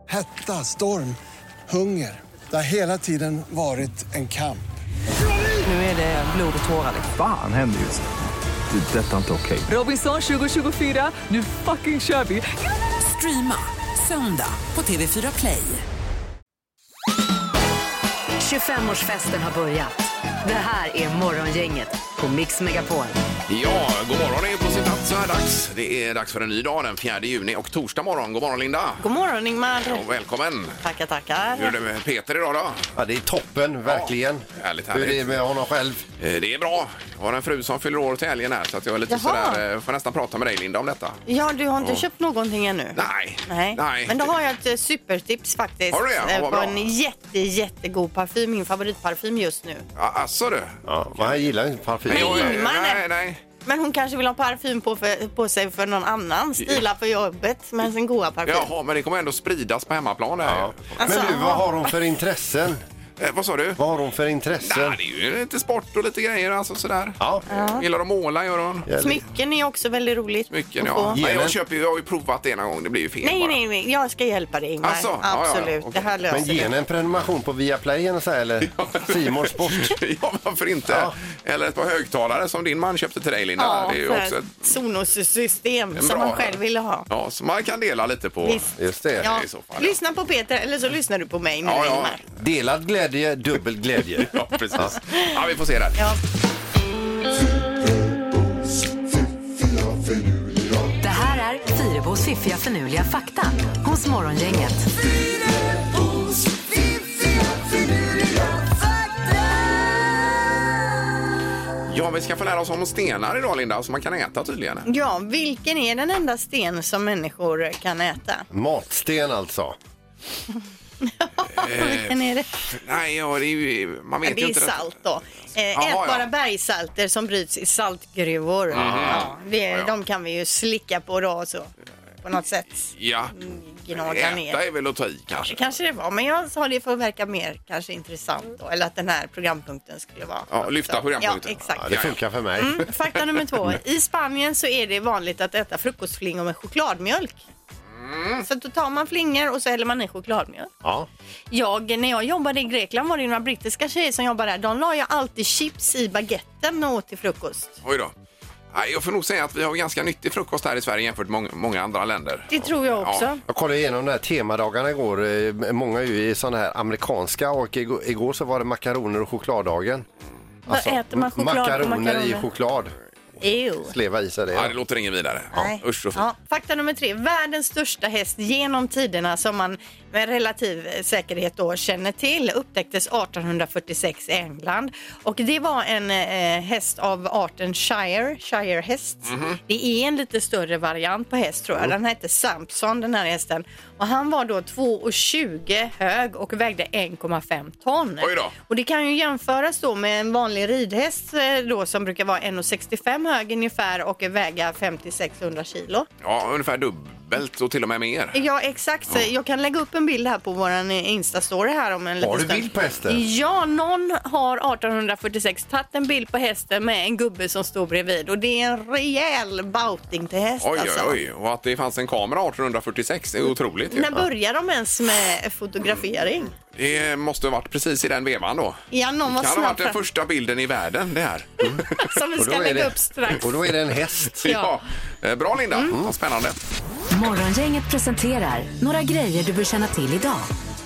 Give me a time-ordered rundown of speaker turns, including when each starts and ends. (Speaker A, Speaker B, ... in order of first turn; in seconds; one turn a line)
Speaker A: 0.1-1.2
Speaker A: 1.7-4.6
Speaker B: 5.7-7.0
Speaker C: 7.1-8.1
Speaker C: 8.7-9.7
Speaker D: 9.7-15.8
Speaker B: 18.4-23.2
Speaker E: 23.5-29.1
Speaker F: 29.0-30.0
Speaker E: 29.8-30.8
Speaker F: 30.8-31.7
Speaker E: 31.6-32.8
Speaker G: 33.0-36.0
Speaker E: 33.9-35.4
Speaker E: 36.2-41.2
Speaker F: 39.1-39.6
Speaker F: 41.3-49.8
Speaker E: 43.0-44.3
Speaker E: 45.9-46.9
Speaker E: 50.0-51.5
Speaker G: 50.9-52.6
Speaker E: 52.1-53.4
Speaker F: 52.1-53.0
Speaker F: 53.6-58.7
Speaker E: 58.5-61.4
Speaker G: 60.4-62.8
Speaker F: 61.0-61.7
Speaker E: 63.2-63.8
Speaker G: 63.8-65.0
Speaker E: 64.6-68.9
Speaker G: 67.2-67.5
Speaker F: 67.5-67.8
Speaker G: 68.9-69.2
Speaker F: 69.0-71.2
Speaker E: 70.5-73.6
Speaker G: 71.1-71.6
Speaker F: 73.2-76.7
Speaker E: 74.8-76.7
Speaker G: 76.3-80.0
Speaker E: 78.7-84.7
Speaker G: 80.9-81.2
Speaker F: 83.6-87.1
Speaker E: 85.9-90.0
Speaker F: 88.4-88.7
Speaker G: 88.8-89.3
Speaker F: 89.2-92.2
Speaker E: 91.6-92.2
Speaker G: 92.4-94.9
Speaker E: 94.2-96.0
Speaker B: 101.0-104.9
Speaker E: 111.9-114.9
Speaker F: 114.9-118.5
Speaker G: 118.5-119.8
Speaker F: 121.0-122.5
Speaker E: 121.5-122.2
Speaker E: 122.7-124.9
Speaker F: 124.2-131.7
Speaker E: 125.7-126.3
Speaker E: 128.7-129.9
Speaker G: 128.7-129.3
Speaker F: 132.2-134.6
Speaker E: 132.9-133.4
Speaker E: 133.9-135.7
Speaker F: 135.4-142.0
Speaker E: 140.5-142.2
Speaker G: 141.8-142.9
Speaker F: 142.6-147.5
Speaker E: 148.0-148.5
Speaker F: 148.4-150.7
Speaker G: 150.8-151.1
Speaker F: 151.5-157.8
Speaker E: 157.8-158.1
Speaker E: 158.7-163.3
Speaker F: 162.5-163.4
Speaker G: 163.5-170.1
Speaker G: 170.7-172.9
Speaker F: 170.7-172.4
Speaker F: 173.4-173.9
Speaker G: 173.8-174.7
Speaker E: 174.5-176.2
Speaker F: 175.6-206.1
Speaker E: 189.3-189.6
Speaker E: 198.2-198.6
Speaker E: 206.2-208.4
Speaker F: 208.3-221.2
Speaker G: 212.2-213.2
Speaker E: 220.6-224.2
Speaker F: 223.9-226.5
Speaker E: 226.7-232.1
Speaker F: 228.9-230.0
Speaker F: 232.0-233.5
Speaker G: 232.4-234.6
Speaker E: 234.4-236.6
Speaker F: 234.4-234.7
Speaker F: 235.7-236.0
Speaker B: 237.1-240.5